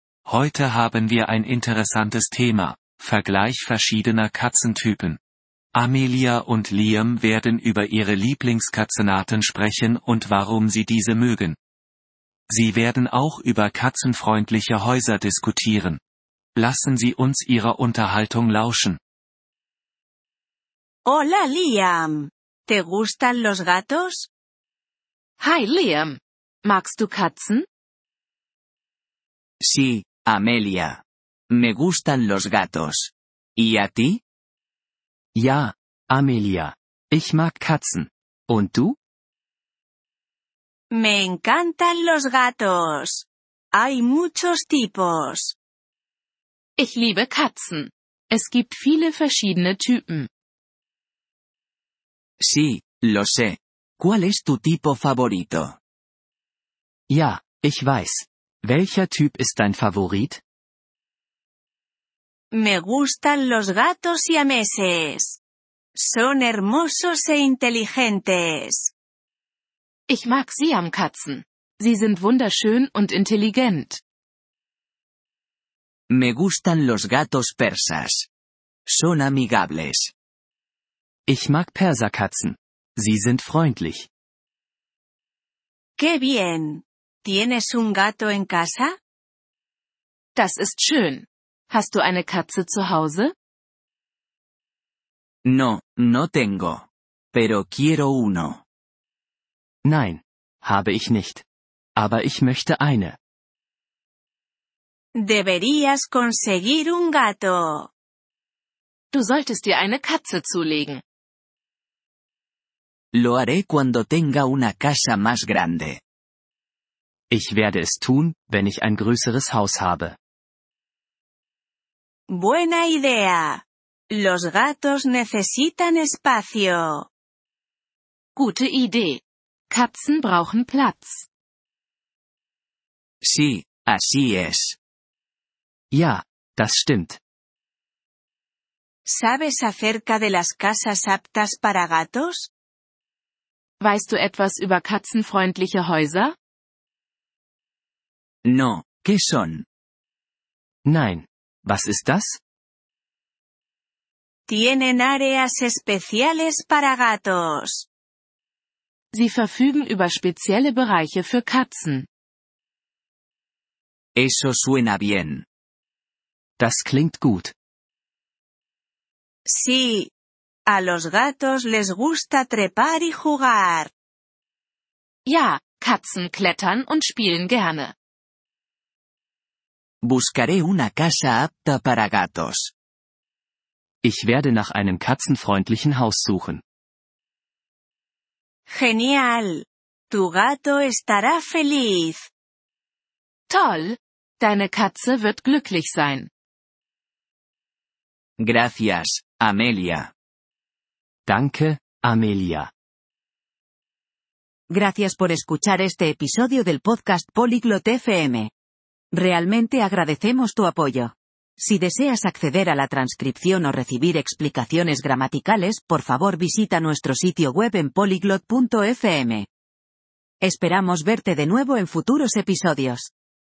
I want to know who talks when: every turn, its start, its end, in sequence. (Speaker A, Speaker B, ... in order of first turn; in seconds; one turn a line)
Speaker A: 0.3-5.2
Speaker A: 5.7-11.6
Speaker A: 12.5-16.0
Speaker A: 16.6-19.0
Speaker B: 21.1-24.3
Speaker C: 25.4-27.7
Speaker D: 29.6-34.2
Speaker E: 35.4-39.0
Speaker B: 40.9-45.6
Speaker C: 46.8-50.3
Speaker D: 52.4-55.8
Speaker E: 57.1-60.4
Speaker B: 62.5-65.4
Speaker B: 66.0-68.9
Speaker C: 70.1-74.0
Speaker D: 76.1-78.3
Speaker D: 78.9-80.1
Speaker E: 81.3-84.1
Speaker B: 86.0-89.0
Speaker C: 90.3-93.3
Speaker D: 95.5-98.6
Speaker E: 99.8-101.5
Speaker E: 102.0-103.2
Speaker B: 105.2-107.9
Speaker C: 109.1-111.0
Speaker D: 113.1-116.0
Speaker E: 117.3-120.2
Speaker B: 122.3-127.1
Speaker C: 128.4-131.3
Speaker D: 133.2-134.8
Speaker E: 135.9-137.2
Speaker B: 139.1-142.5
Speaker C: 143.8-146.3
Speaker D: 148.5-149.7
Speaker E: 150.8-152.4
Speaker B: 154.5-157.9
Speaker C: 159.1-162.1
Speaker D: 164.2-165.4
Speaker E: 166.6-167.5
Speaker B: 169.4-170.1
Speaker B: 170.7-173.9
Speaker C: 175.3-177.9
Speaker D: 180.0-182.7
Speaker E: 184.0-186.6
Speaker B: 188.7-192.3
Speaker C: 193.5-196.3
Speaker D: 198.4-200.1
Speaker E: 201.3-202.7
Speaker F: 204.7-208.5
Speaker F: 209.1-219.5
Speaker F: 220.4-223.1